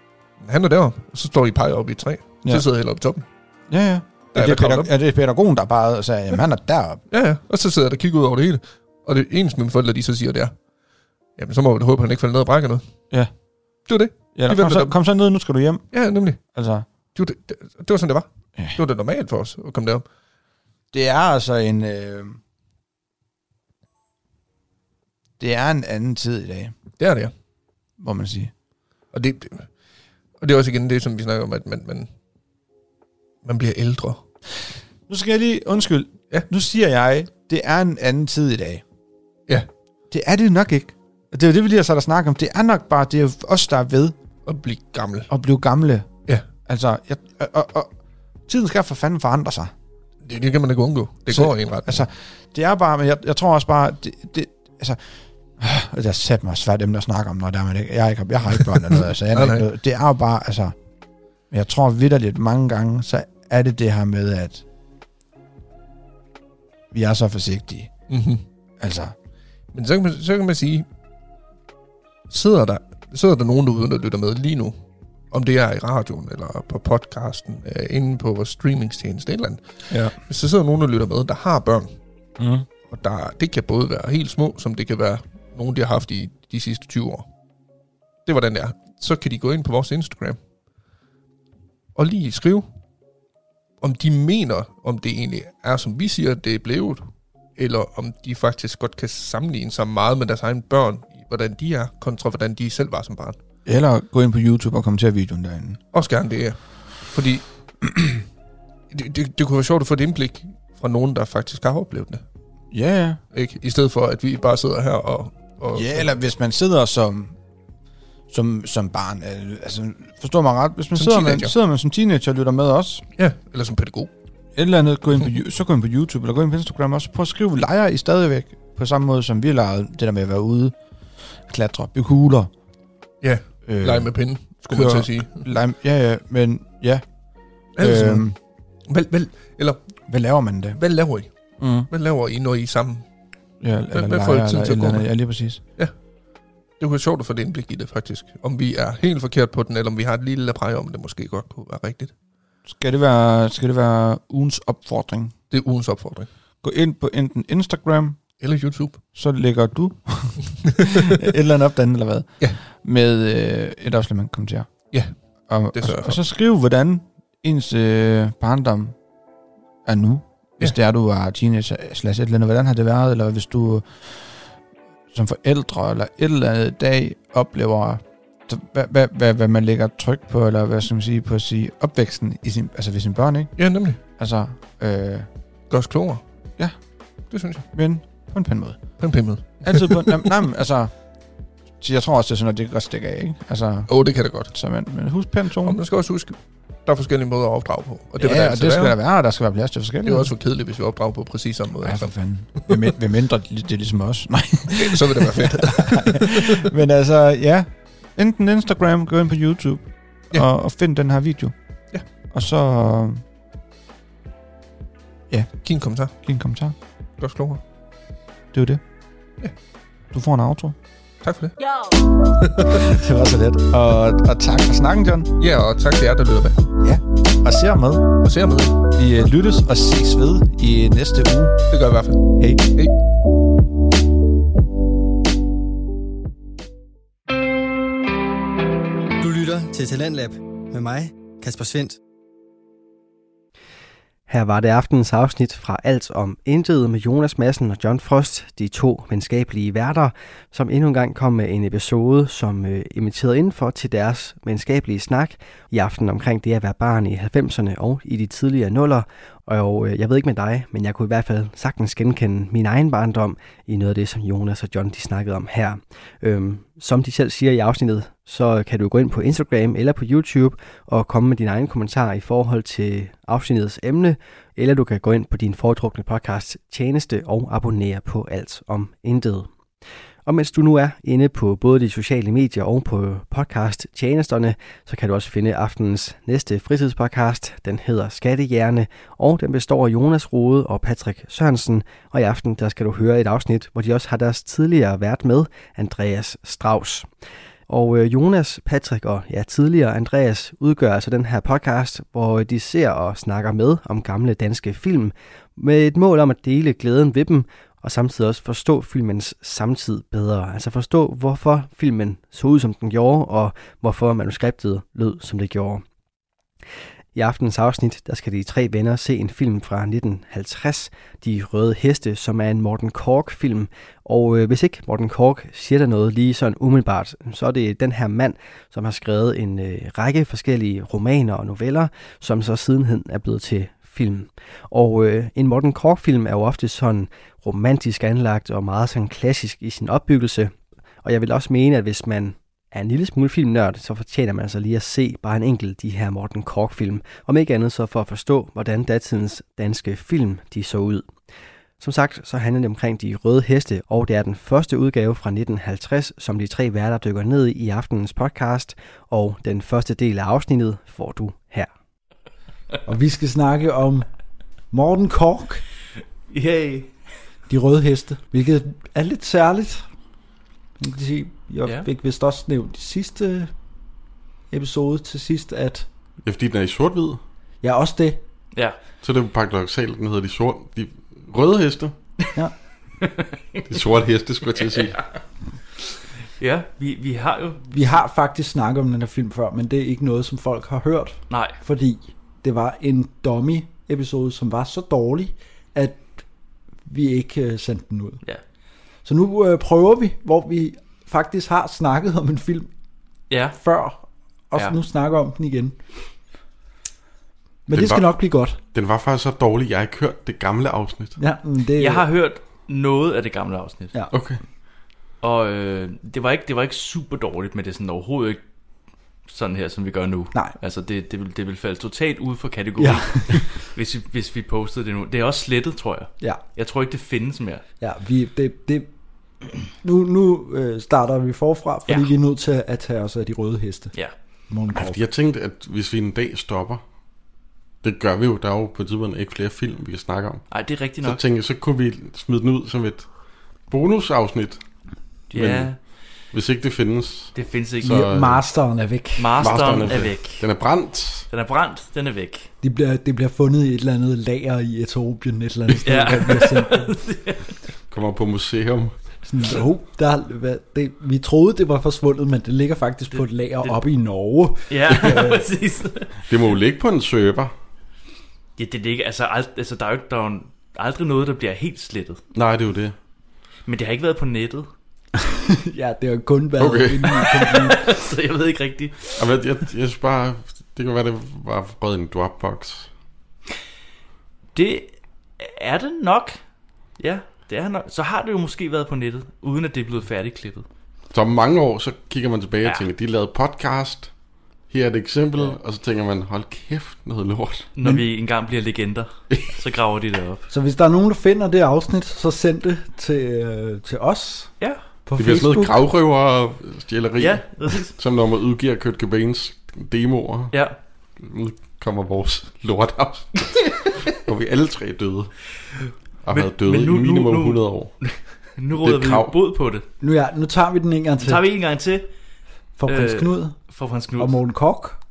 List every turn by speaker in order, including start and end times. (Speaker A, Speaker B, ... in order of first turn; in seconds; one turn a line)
Speaker A: 0.4-3.2
Speaker B: 3.7-7.0
Speaker A: 4.3-4.9
Speaker A: 7.1-10.5
Speaker A: 11.4-12.8
Speaker A: 13.9-14.9
Speaker B: 14.3-15.9
Speaker A: 15.9-16.4
Speaker B: 16.5-16.9
Speaker A: 17.1-20.0
Speaker B: 20.9-22.4
Speaker B: 25.4-26.7
Speaker A: 27.0-27.3
Speaker B: 28.0-28.5
Speaker A: 29.1-29.7
Speaker A: 30.4-32.1
Speaker A: 33.4-34.2
Speaker B: 35.1-38.8
Speaker B: 40.1-44.2
Speaker A: 44.5-45.3
Speaker B: 45.3-46.1
Speaker B: 46.7-47.9
Speaker B: 48.5-49.7
Speaker A: 50.2-52.0
Speaker B: 51.3-55.0
Speaker B: 55.6-60.7
Speaker A: 58.6-59.6
Speaker B: 61.5-64.6
Speaker B: 66.9-67.9
Speaker A: 68.1-68.4
Speaker B: 68.8-69.1
Speaker A: 69.7-70.8
Speaker A: 72.3-74.7
Speaker A: 75.3-81.9
Speaker B: 82.4-82.7
Speaker A: 82.9-87.3
Speaker A: 88.2-90.4
Speaker A: 92.0-92.7
Speaker A: 93.8-97.0
Speaker A: 97.6-103.4
Speaker B: 103.7-105.8
Speaker A: 105.9-107.5
Speaker A: 108.9-112.2
Speaker B: 112.7-113.2
Speaker A: 113.3-116.1
Speaker B: 115.7-117.3
Speaker B: 118.3-123.0
Speaker A: 120.9-121.5
Speaker A: 123.2-124.1
Speaker B: 124.5-130.8
Speaker B: 131.5-132.5
Speaker A: 133.2-135.5
Speaker B: 133.7-137.0
Speaker A: 137.8-138.3
Speaker B: 137.8-138.3
Speaker A: 138.9-139.8
Speaker B: 140.1-140.8
Speaker A: 140.8-141.3
Speaker B: 141.6-141.9
Speaker A: 141.9-143.0
Speaker B: 143.6-145.6
Speaker A: 143.9-145.1
Speaker A: 146.8-152.1
Speaker B: 152.7-155.3
Speaker A: 155.5-156.3
Speaker B: 156.6-158.2
Speaker A: 158.4-159.0
Speaker B: 159.1-164.7
Speaker B: 165.5-168.9
Speaker A: 165.7-166.2
Speaker B: 169.8-174.5
Speaker B: 175.1-183.5
Speaker A: 183.6-184.0
Speaker B: 184.2-185.3
Speaker A: 185.7-186.2
Speaker A: 187.3-187.6
Speaker B: 187.7-188.9
Speaker A: 189.0-190.3
Speaker B: 189.6-190.9
Speaker B: 191.8-193.9
Speaker A: 193.9-194.5
Speaker B: 194.4-195.8
Speaker A: 195.6-199.0
Speaker B: 198.2-200.3
Speaker A: 200.0-202.8
Speaker B: 201.8-211.5
Speaker A: 204.7-206.7
Speaker B: 212.3-213.2
Speaker A: 215.6-216.1
Speaker B: 216.2-216.7
Speaker A: 217.2-217.6
Speaker B: 218.5-218.8
Speaker B: 220.1-220.8
Speaker A: 221.2-221.6
Speaker A: 222.3-222.8
Speaker B: 222.6-225.3
Speaker A: 225.4-226.6
Speaker B: 226.8-228.1
Speaker A: 228.2-228.8
Speaker B: 228.9-231.6
Speaker A: 231.7-232.9
Speaker B: 232.3-232.7
Speaker C: 239.2-242.0
Speaker D: 244.3-279.5
Speaker D: 280.2-297.1
Speaker D: 297.7-315.8
Speaker D: 317.1-340.5
Speaker D: 341.0-351.1
Speaker D: 351.8-361.7
Speaker E: 362.9-364.1
Speaker E: 364.7-365.6
Speaker F: 366.3-366.9
Speaker E: 367.5-369.8
Speaker E: 370.8-373.5
Speaker E: 374.5-375.9
Speaker G: 376.2-377.2
Speaker E: 377.6-378.2
Speaker G: 379.0-381.9
Speaker G: 383.7-385.0
Speaker F: 386.4-387.6
Speaker E: 387.6-396.2
Speaker F: 391.3-391.6
Speaker E: 396.9-398.2
Speaker E: 399.0-402.7
Speaker F: 403.3-403.6
Speaker E: 403.5-405.8
Speaker E: 407.7-408.6
Speaker G: 407.7-408.2
Speaker G: 408.7-411.2
Speaker E: 411.2-412.1
Speaker F: 411.8-413.9
Speaker G: 414.1-414.4
Speaker F: 415.2-418.4
Speaker F: 419.3-427.6
Speaker E: 420.3-420.6
Speaker E: 422.8-423.7
Speaker E: 426.2-426.5
Speaker E: 427.8-428.9
Speaker E: 429.8-433.9
Speaker F: 431.9-432.1
Speaker E: 434.5-435.0
Speaker G: 434.7-436.8
Speaker G: 437.8-440.5
Speaker F: 440.5-441.2
Speaker G: 441.0-443.1
Speaker G: 443.7-444.6
Speaker F: 445.3-445.8
Speaker G: 445.3-445.7
Speaker G: 446.3-448.4
Speaker F: 447.3-447.9
Speaker E: 447.8-449.4
Speaker F: 449.2-450.5
Speaker G: 449.4-451.3
Speaker F: 451.3-452.5
Speaker E: 452.6-456.9
Speaker F: 455.8-457.5
Speaker G: 457.9-458.9
Speaker E: 459.3-465.5
Speaker F: 463.1-463.8
Speaker F: 464.7-466.2
Speaker G: 466.3-467.5
Speaker F: 468.6-472.2
Speaker G: 472.3-472.9
Speaker F: 473.6-474.7
Speaker E: 475.2-477.9
Speaker G: 476.6-477.2
Speaker F: 477.7-479.2
Speaker G: 479.2-482.9
Speaker F: 484.5-486.4
Speaker F: 487.0-490.6
Speaker G: 491.1-494.1
Speaker G: 494.7-497.7
Speaker F: 497.7-500.4
Speaker E: 500.5-505.8
Speaker F: 504.6-504.8
Speaker G: 505.2-510.6
Speaker F: 507.2-507.9
Speaker G: 511.2-515.3
Speaker G: 516.2-518.0
Speaker F: 516.3-519.9
Speaker G: 518.7-519.3
Speaker E: 520.0-521.5
Speaker F: 521.2-522.1
Speaker E: 522.8-525.0
Speaker F: 522.9-524.4